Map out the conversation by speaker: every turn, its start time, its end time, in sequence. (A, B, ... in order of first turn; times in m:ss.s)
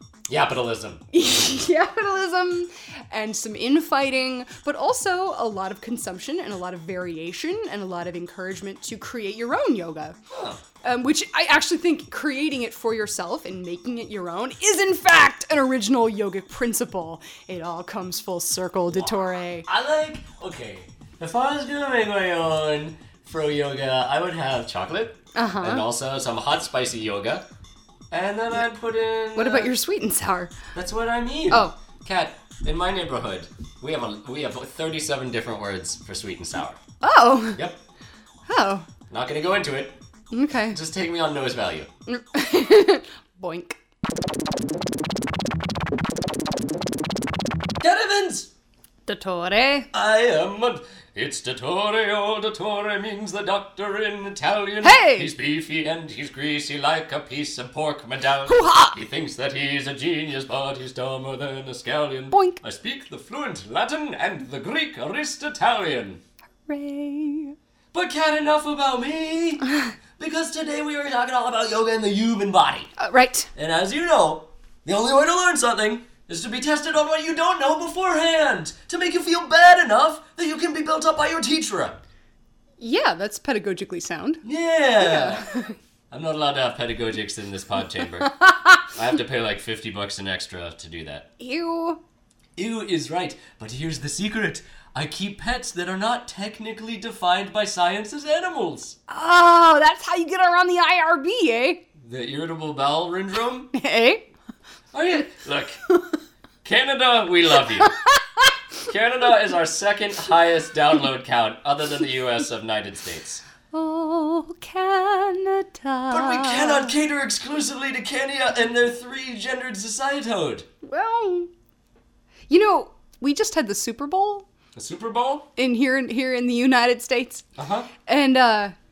0:00.3-0:01.0 A
0:01.1-0:10.2 B
0:10.3-0:10.6 A
0:10.8-0:19.7 B
0:18.9-0:27.4 A
0:25.3-0:25.8 B
0:28.1-0:29.7 A
0:29.3-0:30.5 B
0:30.7-0:36.8 A
0:31.5-0:31.7 B
0:37.0-0:37.6 B
0:37.5-0:37.8 A
0:38.5-0:38.9 B
0:39.1-0:40.0 A
0:40.3-0:40.8 B
0:40.7-0:41.9 A
0:42.1-0:43.8 B
0:47.8-0:48.5 A
0:49.1-0:49.9 B
0:49.9-1:06.2 A
0:54.8-0:55.3 B
0:58.4-0:59.0 B
1:02.3-1:02.6 B
1:06.7-1:07.6 B
1:07.9-1:12.9 A
1:13.0-1:13.5 B
1:13.5-1:22.0 A
1:22.8-1:24.4 B
1:24.4-1:25.6 A
1:25.0-1:25.7 B
1:26.1-1:31.2 A
1:28.3-1:28.8 B
1:31.4-1:32.0 B
1:32.6-1:39.0 A
1:39.1-1:41.8 B
1:42.0-1:43.7 A
1:43.7-1:44.3 B
1:44.9-1:45.8 A
1:46.6-1:47.9 A
1:47.8-1:48.5 B
1:48.9-1:53.4 A
1:53.7-1:56.9 B
1:56.1-2:00.6 A
2:00.8-2:01.5 B
2:02.5-2:04.5 B
2:04.7-2:05.5 A
2:05.6-2:07.5 B
2:07.6-2:07.9 A
2:08.0-2:08.7 B